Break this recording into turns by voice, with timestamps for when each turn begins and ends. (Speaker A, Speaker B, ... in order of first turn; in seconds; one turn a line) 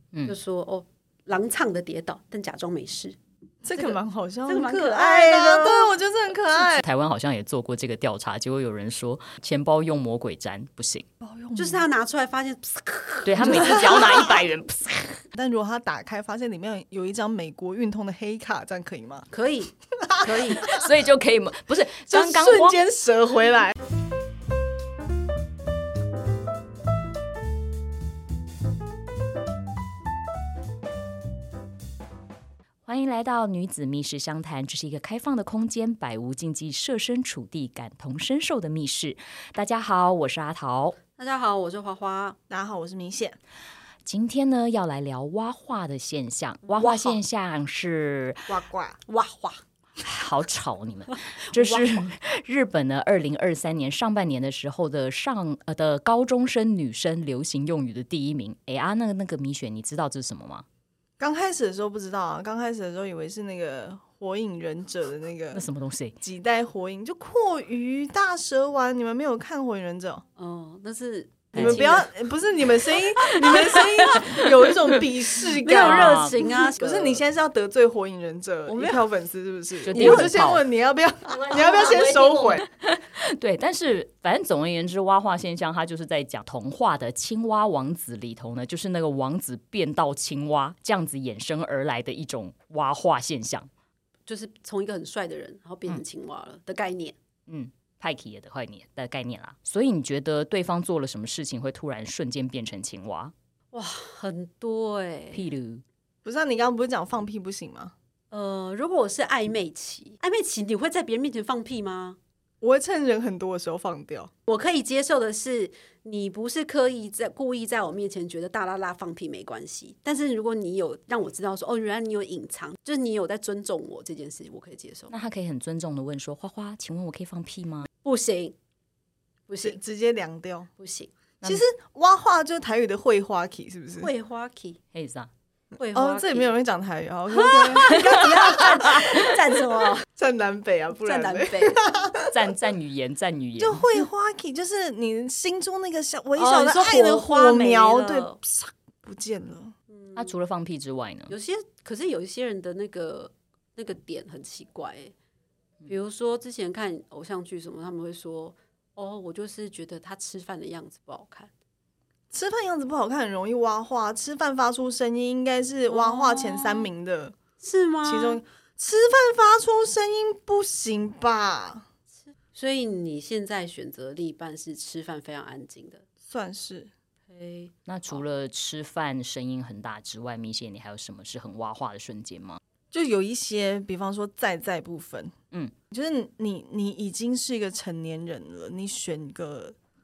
Speaker A: 0.3-3.2
Speaker B: 3.6-6.8
Speaker A: 3.8-6.0
Speaker C: 6.8-11.1
Speaker B: 11.2-11.8
Speaker A: 11.6-14.3
Speaker C: 13.2-15.2
Speaker B: 13.5-13.8
Speaker B: 15.3-19.3
Speaker A: 19.3-20.7
Speaker B: 20.1-20.5
Speaker C: 20.6-22.8
Speaker B: 22.1-23.7
Speaker C: 32.9-41.0
Speaker A: 41.2-42.4
Speaker B: 42.5-43.4
Speaker C: 44.1-48.6
Speaker A: 46.8-47.1
Speaker B: 48.5-49.0
Speaker A: 49.1-49.6
Speaker C: 50.0-60.6
Speaker B: 61.2-65.6
Speaker C: 65.5-66.2
Speaker B: 66.2-70.2
Speaker A: 70.4-72.1
Speaker C: 71.5-72.0
Speaker B: 71.5-82.6
Speaker C: 73.3-76.4
Speaker A: 73.3-74.1
Speaker A: 75.6-77.2
Speaker A: 78.7-79.0
Speaker C: 79.8-80.7
Speaker A: 79.9-80.4
Speaker C: 81.3-93.7
Speaker A: 94.3-97.2
Speaker C: 97.5-103.3
Speaker A: 103.7-105.5
Speaker C: 105.3-105.8
Speaker B: 106.2-107.9
Speaker A: 108.3-112.2
Speaker B: 112.6-114.3
Speaker A: 114.5-125.1
Speaker C: 125.1-127.9
Speaker A: 128.0-128.6
Speaker A: 129.5-129.8
Speaker B: 129.6-130.7
Speaker A: 130.8-131.1
Speaker B: 131.4-134.1
Speaker A: 134.0-134.8
Speaker C: 134.9-135.3
Speaker A: 135.8-136.5
Speaker B: 135.9-139.2
Speaker A: 137.3-140.1
Speaker B: 140.2-142.5
Speaker A: 141.0-141.8
Speaker C: 142.3-143.9
Speaker B: 143.6-149.7
Speaker A: 146.4-148.4
Speaker A: 149.9-150.3
Speaker C: 150.2-151.3
Speaker A: 151.3-155.1
Speaker A: 155.9-161.5
Speaker B: 162.3-167.3
Speaker A: 165.9-166.9
Speaker A: 167.6-168.4
Speaker B: 168.0-171.8
Speaker A: 172.3-176.0
Speaker B: 176.3-176.9
Speaker A: 177.3-178.2
Speaker C: 177.9-182.6
Speaker B: 182.9-185.3
Speaker B: 185.9-189.8